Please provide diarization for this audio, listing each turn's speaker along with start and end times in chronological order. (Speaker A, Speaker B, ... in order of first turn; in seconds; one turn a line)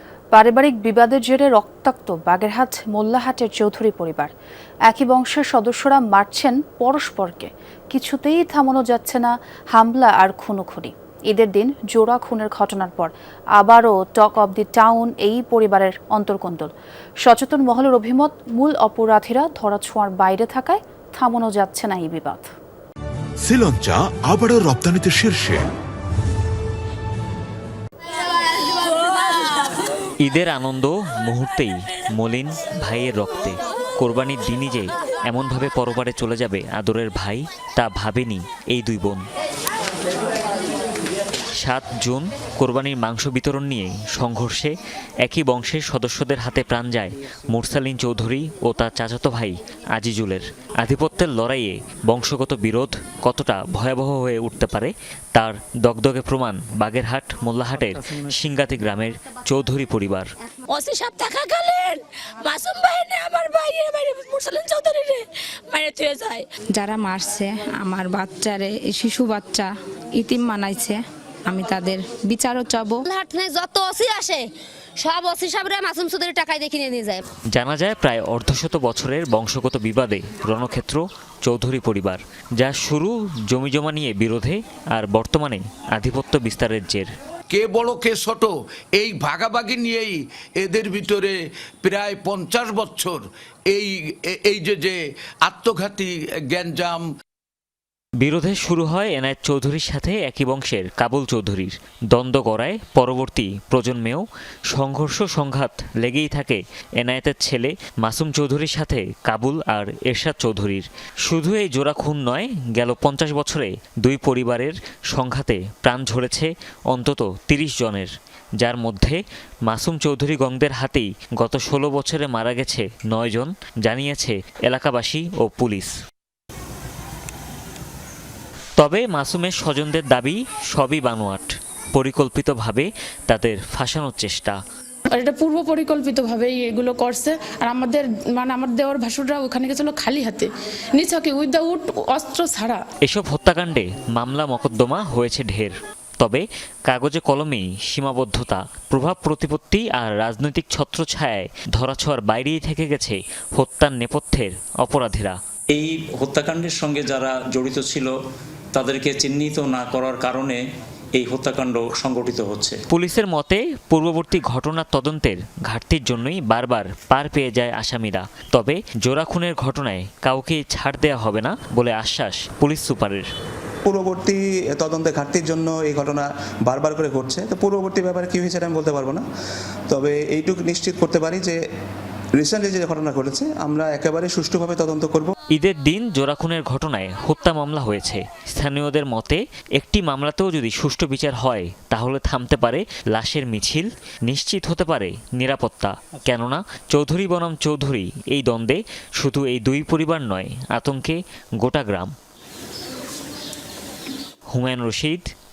Speaker A: 0.3-4.3
Speaker A: 4.9-16.7
Speaker A: 17.2-22.5
Speaker B: 23.4-25.6
Speaker C: 30.2-39.2
Speaker C: 41.6-44.7
Speaker C: 45.2-60.3
Speaker D: 60.7-66.5
Speaker E: 66.7-73.0
Speaker F: 73.0-77.2
Speaker C: 77.5-87.1
Speaker G: 87.5-97.0
Speaker C: 98.2-125.9
Speaker C: 128.8-134.6
Speaker H: 135.1-142.8
Speaker C: 143.0-155.4
Speaker I: 155.7-158.1
Speaker I: 158.7-160.6
Speaker I: 161.1-162.8
Speaker C: 162.9-173.3
Speaker J: 173.8-179.2
Speaker J: 179.9-181.6
Speaker J: 182.4-185.3
Speaker C: 185.5-202.1
Speaker C: 204.5-205.3